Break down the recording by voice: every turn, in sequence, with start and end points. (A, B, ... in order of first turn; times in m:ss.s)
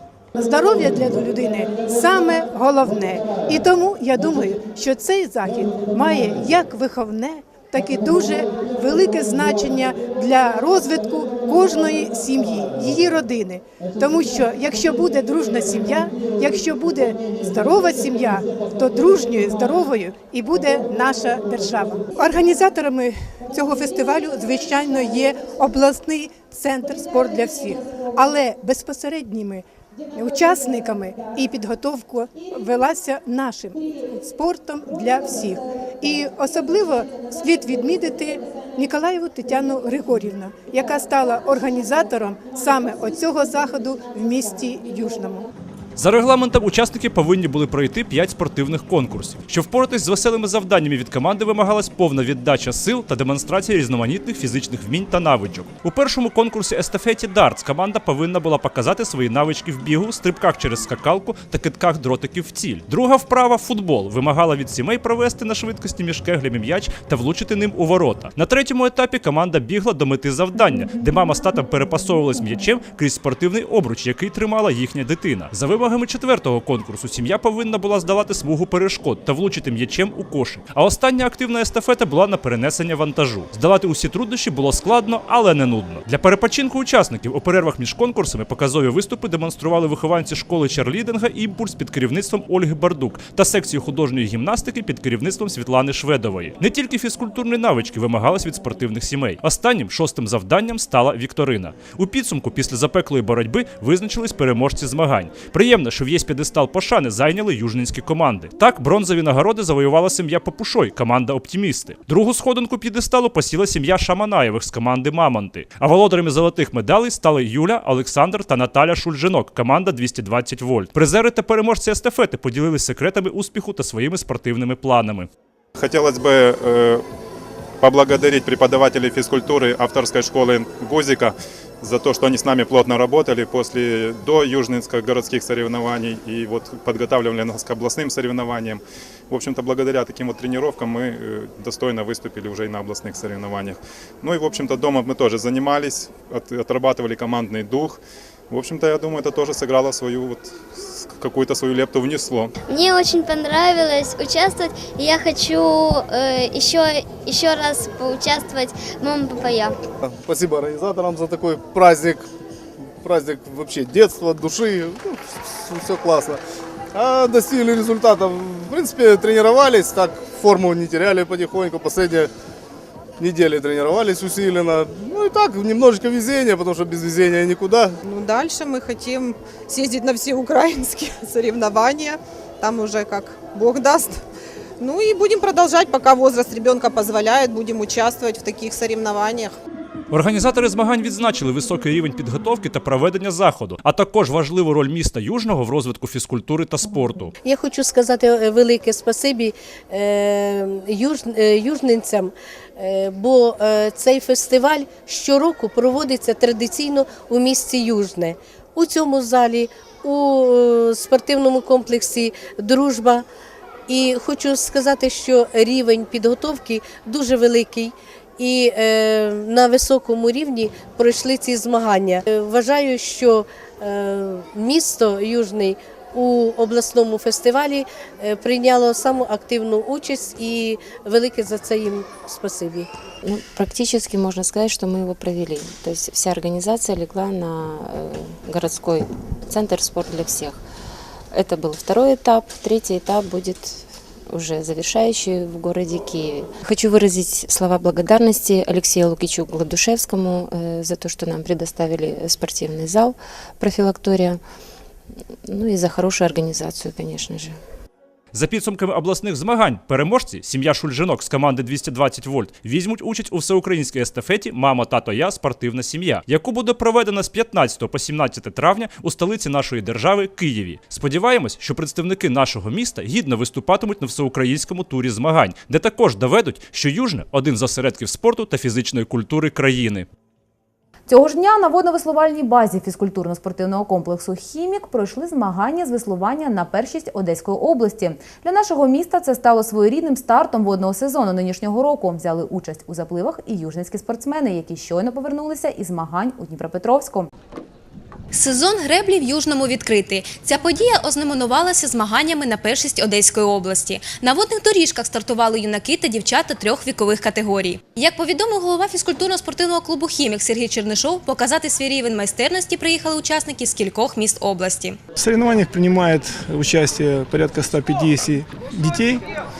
0:00.3-0:29.6 A
0:30.2-0:45.5 A
0:46.0-2:05.3 B
2:05.8-2:07.0 C
2:07.8-2:32.5 C
2:32.7-2:39.7 D
2:40.0-2:42.2 E
2:43.0-2:46.4 E
2:46.9-2:52.3 E
2:53.2-2:58.0 E
2:58.0-3:04.2 F
3:04.8-3:09.5 F
3:10.1-3:17.3 B
3:17.4-3:33.2 G
3:33.9-3:52.9 G
3:53.2-4:00.6 H
4:01.3-4:14.4 H
4:15.5-4:17.6 H
4:18.3-4:40.1 B
4:41.1-4:57.3 I
4:58.3-5:15.0 J
5:15.2-5:19.2 K